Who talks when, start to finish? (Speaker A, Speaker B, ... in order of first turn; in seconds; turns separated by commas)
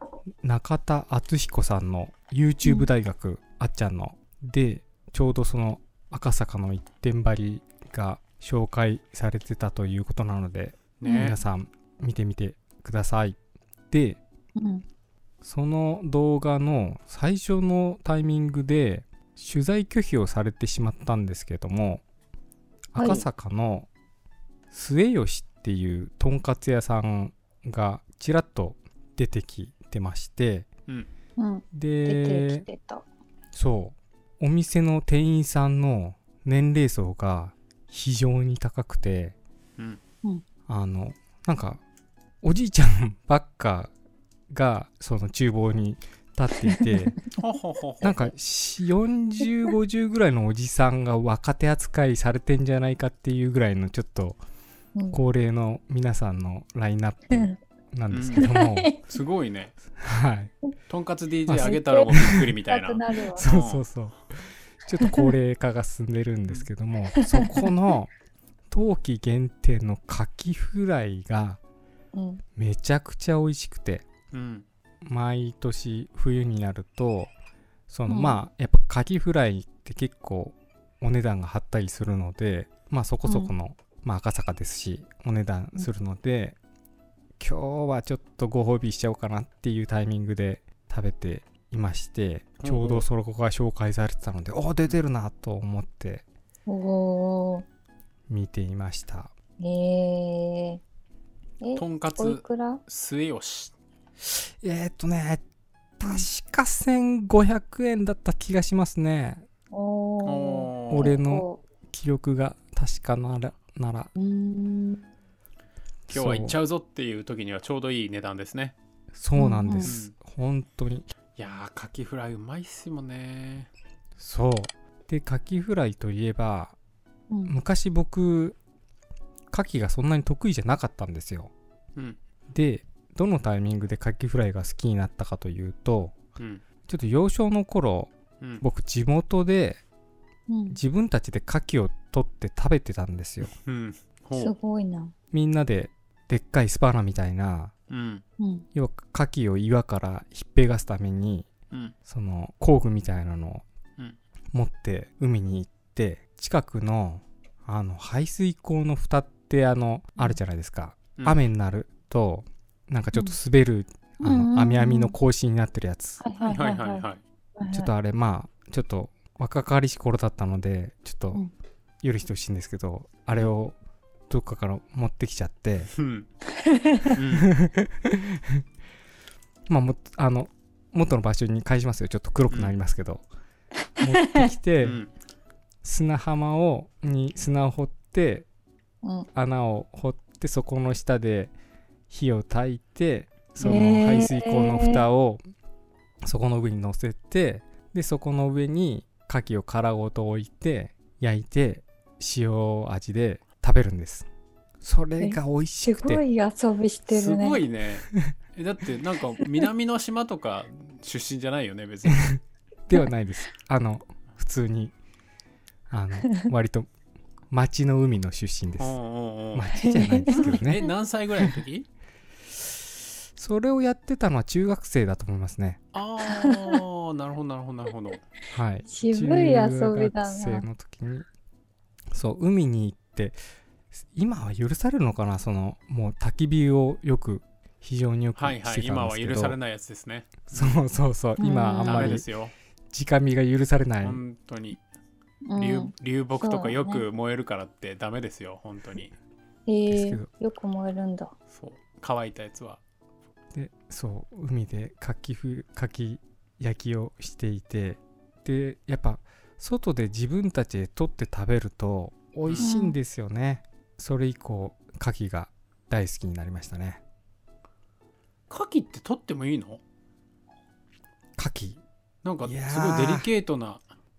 Speaker A: 0.4-13.4, Speaker B: 2.6-2.9, Speaker C: 11.0-11.4, Speaker B: 11.1-11.4, Speaker A: 13.9-14.2, Speaker B: 14.6-14.8, Speaker A: 15.4-22.0, Speaker A: 22.9-23.9, Speaker B: 23.0-23.2, Speaker A: 24.7-30.7, Speaker B: 31.4-33.0, Speaker A: 31.7-32.7, Speaker A: 33.5-39.4, Speaker A: 40.7-41.8, Speaker A: 42.4-43.9, Speaker A: 44.5-47.2, Speaker B: 46.8-47.0, Speaker C: 47.4-48.3, Speaker A: 48.0-54.4, Speaker B: 49.4-49.7, Speaker B: 55.0-55.2, Speaker A: 55.1-59.0, Speaker C: 58.1-58.5, Speaker B: 58.3-59.0, Speaker C: 59.1-59.7, Speaker A: 60.0-60.5, Speaker C: 60.9-63.9, Speaker A: 61.5-61.8, Speaker B: 61.6-63.5, Speaker A: 63.4-68.1, Speaker B: 65.0-65.3, Speaker B: 67.2-67.7, Speaker A: 68.7-71.6, Speaker B: 72.1-72.4, Speaker A: 72.6-74.1, Speaker C: 74.3-74.7, Speaker A: 75.0-77.3, Speaker A: 77.9-86.6, Speaker B: 78.1-78.4, Speaker B: 83.2-83.5, Speaker A: 87.4-96.2, Speaker C: 92.6-93.0, Speaker B: 96.7-97.7, Speaker A: 98.3-99.3, Speaker B: 99.6-100.8, Speaker B: 101.6-102.8, Speaker C: 101.8-103.7, Speaker A: 104.4-105.4, Speaker A: 106.0-109.5, Speaker B: 109.7-111.6, Speaker C: 110.2-111.1, Speaker A: 110.9-114.1, Speaker B: 114.2-115.0, Speaker A: 116.1-116.6, Speaker C: 116.1-118.8, Speaker A: 119.1-121.1, Speaker B: 119.4-120.0, Speaker C: 119.8-120.2, Speaker C: 121.4-123.7, Speaker A: 124.2-126.8, Speaker B: 127.3-127.6, Speaker A: 127.5-128.6, Speaker A: 129.5-131.5, Speaker A: 132.5-136.2, Speaker C: 136.4-136.6, Speaker A: 136.9-139.8, Speaker B: 140.5-140.8, Speaker A: 140.7-143.5, Speaker C: 143.4-144.6, Speaker B: 144.3-145.1, Speaker A: 145.3-147.7, Speaker C: 147.9-148.2, Speaker B: 148.4-148.7, Speaker A: 148.7-151.5, Speaker A: 152.1-153.6, Speaker A: 154.5-166.2, Speaker C: 161.2-161.4, Speaker B: 164.2-165.2, Speaker B: 166.2-167.9, Speaker C: 166.4-167.2, Speaker A: 167.7-171.4, Speaker A: 172.0-173.8, Speaker A: 174.3-175.9, Speaker C: 175.9-176.3, Speaker B: 176.6-177.2, Speaker C: 177.1-177.5, Speaker A: 177.5-178.6, Speaker A: 179.7-183.2, Speaker A: 184.0-185.0, Speaker C: 184.8-185.1, Speaker A: 185.8-188.5, Speaker B: 189.0-189.3, Speaker A: 189.3-191.5, Speaker A: 192.1-195.4, Speaker C: 193.6-194.3, Speaker B: 193.6-195.1, Speaker A: 196.2-204.3, Speaker A: 204.8-206.2, Speaker B: 205.2-207.6, Speaker C: 207.1-212.3, Speaker A: 212.9-214.9, Speaker A: 215.9-216.9, Speaker A: 217.5-219.0, Speaker C: 218.8-219.7, Speaker A: 219.5-220.8, Speaker B: 219.7-220.9, Speaker C: 220.3-221.9, Speaker A: 223.4-225.8, Speaker C: 225.9-228.2, Speaker B: 226.2-226.8, Speaker A: 228.5-231.3, Speaker B: 228.9-230.7, Speaker A: 232.1-233.4, Speaker A: 234.1-239.6, Speaker C: 238.3-240.9, Speaker A: 240.5-242.2, Speaker B: 241.4-242.2, Speaker C: 241.8-242.5, Speaker A: 242.9-244.2, Speaker C: 244.0-244.8, Speaker B: 245.5-247.1, Speaker C: 245.5-249.1, Speaker B: 249.7-251.3, Speaker A: 249.9-250.3, Speaker C: 251.5-252.8, Speaker A: 253.5-267.0, Speaker B: 262.6-263.0, Speaker C: 268.5-269.8, Speaker A: 271.4-271.8, Speaker C: 272.2-273.8, Speaker A: 272.4-273.3